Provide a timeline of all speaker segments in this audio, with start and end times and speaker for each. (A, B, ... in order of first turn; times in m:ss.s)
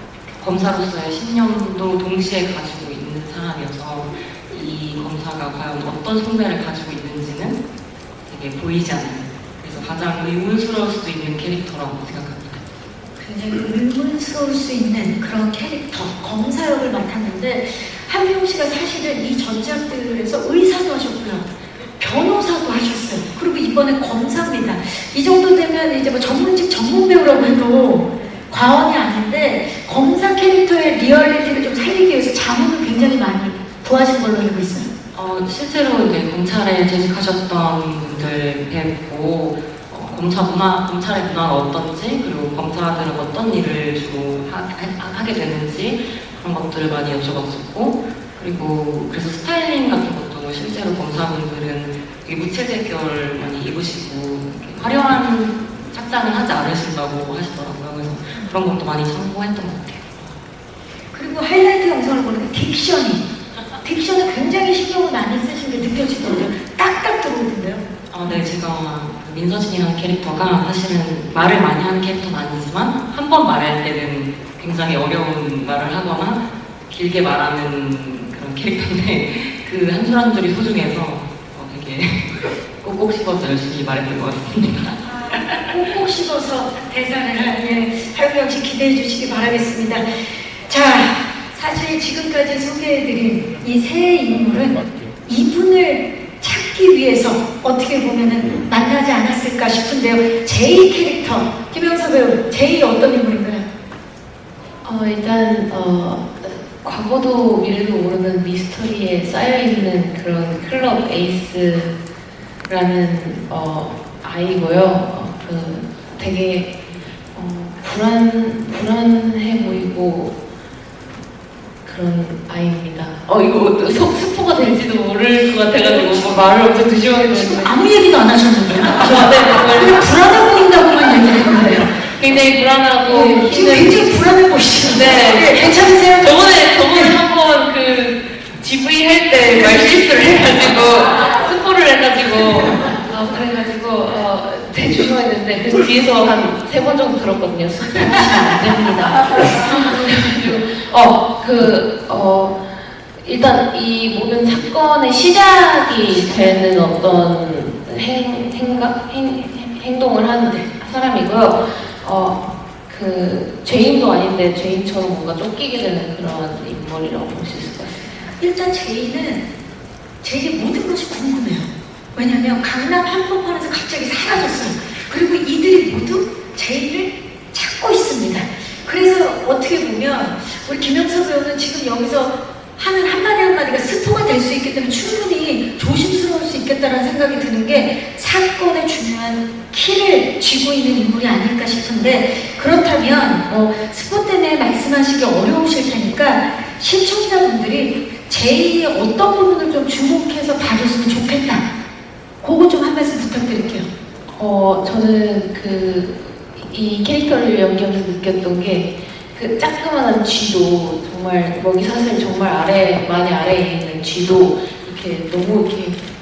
0:00.4-0:07.6 A
0:08.3-0:12.6 A
0:13.2-0:34.9 B
0:35.1-1:00.3 A
1:01.1-1:03.3 B
1:03.8-1:07.9 B
1:08.1-1:25.6 A
1:25.0-1:43.7 B
1:44.8-1:51.9 C
1:52.7-1:56.8 C
1:57.3-2:00.4 C
2:01.8-2:07.7 C
2:05.8-2:06.6 B
2:07.2-2:12.0 B
2:09.0-2:10.0 C
2:11.5-2:14.1 C
2:13.0-2:17.2 B
2:14.9-2:48.3 C
2:48.4-2:49.5 B
2:50.2-3:21.7 B
3:22.4-3:23.9 B
3:24.3-3:36.0 C